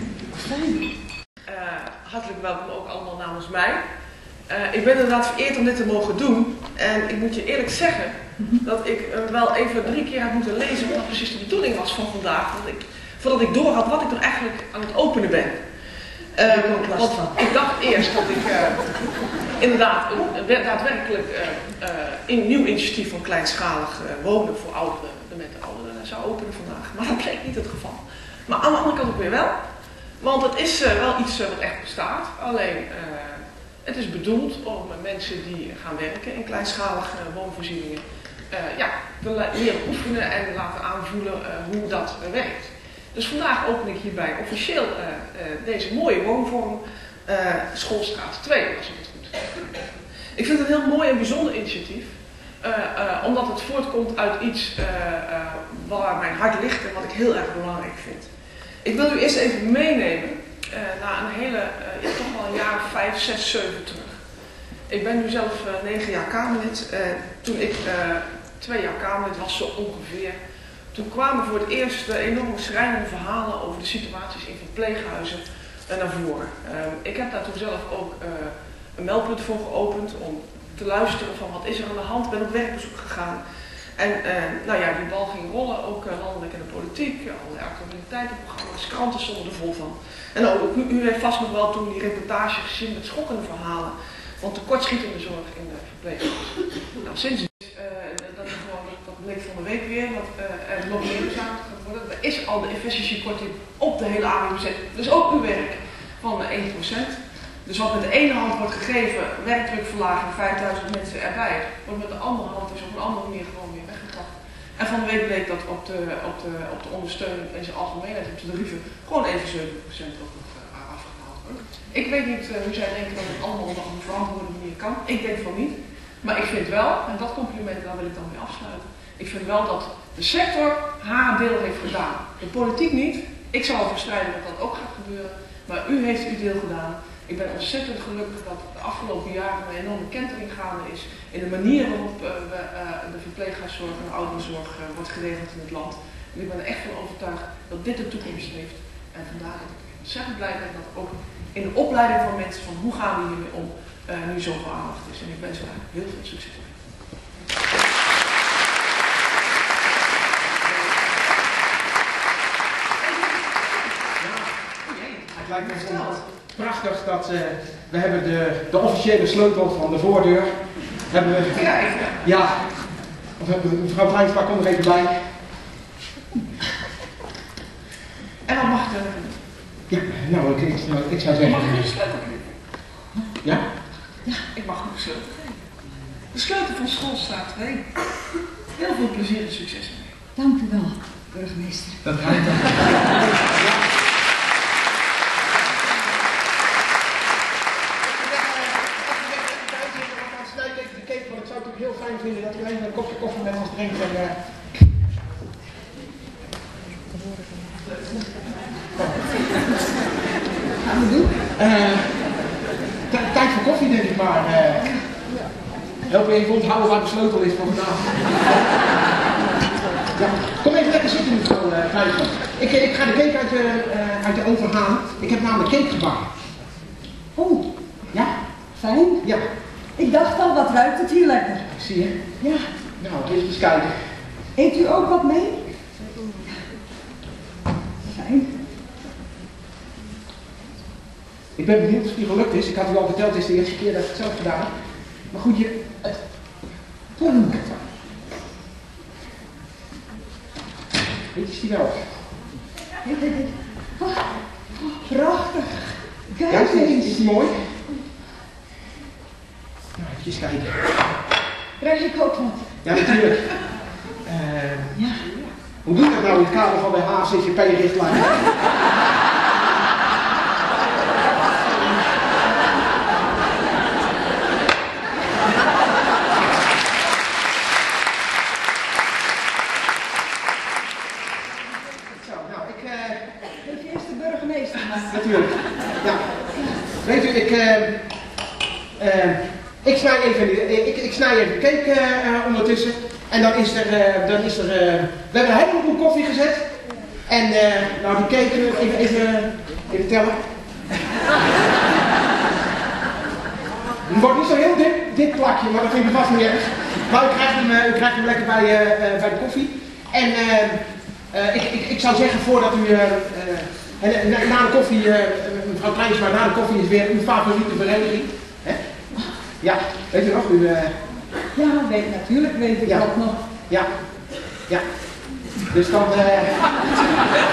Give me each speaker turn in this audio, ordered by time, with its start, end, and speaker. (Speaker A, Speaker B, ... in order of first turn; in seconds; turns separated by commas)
Speaker A: 0.3-0.9, Speaker B: 1.5-3.8, Speaker B: 4.5-15.6, Speaker B: 16.4-19.0, Speaker A: 16.5-17.4, Speaker B: 19.6-29.6, Speaker B: 30.2-49.8, Speaker B: 50.4-58.3, Speaker B: 58.8-64.2, Speaker B: 64.9-70.4, Speaker B: 70.9-83.4, Speaker B: 84.0-156.8, Speaker C: 164.2-164.5, Speaker B: 164.8-166.3, Speaker C: 165.3-171.7, Speaker B: 171.5-172.2, Speaker C: 172.2-175.3, Speaker B: 178.4-179.4, Speaker C: 179.9-181.9, Speaker B: 181.4-182.6, Speaker B: 184.5-185.7, Speaker B: 186.3-188.0, Speaker B: 188.7-190.2, Speaker A: 190.4-192.7, Speaker C: 192.2-193.8, Speaker C: 198.1-204.4, Speaker A: 210.8-211.4, Speaker C: 211.6-212.3, Speaker C: 213.1-215.0, Speaker C: 216.1-218.3, Speaker C: 220.2-226.3, Speaker A: 227.3-227.7, Speaker A: 228.8-229.3, Speaker A: 230.0-231.7, Speaker C: 231.7-232.2, Speaker A: 232.4-232.7, Speaker C: 233.0-233.9, Speaker A: 234.6-235.7, Speaker A: 238.1-238.5, Speaker C: 241.6-244.7, Speaker C: 245.3-246.2, Speaker A: 247.2-247.7, Speaker C: 251.3-252.2, Speaker A: 253.0-257.3, Speaker C: 256.5-257.8, Speaker C: 260.0-261.0, Speaker A: 261.8-262.8, Speaker C: 262.8-263.7, Speaker C: 264.2-265.0, Speaker A: 264.9-265.2, Speaker C: 265.9-268.4, Speaker C: 282.2-283.3, Speaker A: 283.6-285.3, Speaker C: 285.1-286.3, Speaker C: 286.9-288.0, Speaker C: 289.0-300.4, Speaker C: 304.0-318.8, Speaker C: 319.6-321.0, Speaker A: 321.5-323.4, Speaker C: 325.7-326.7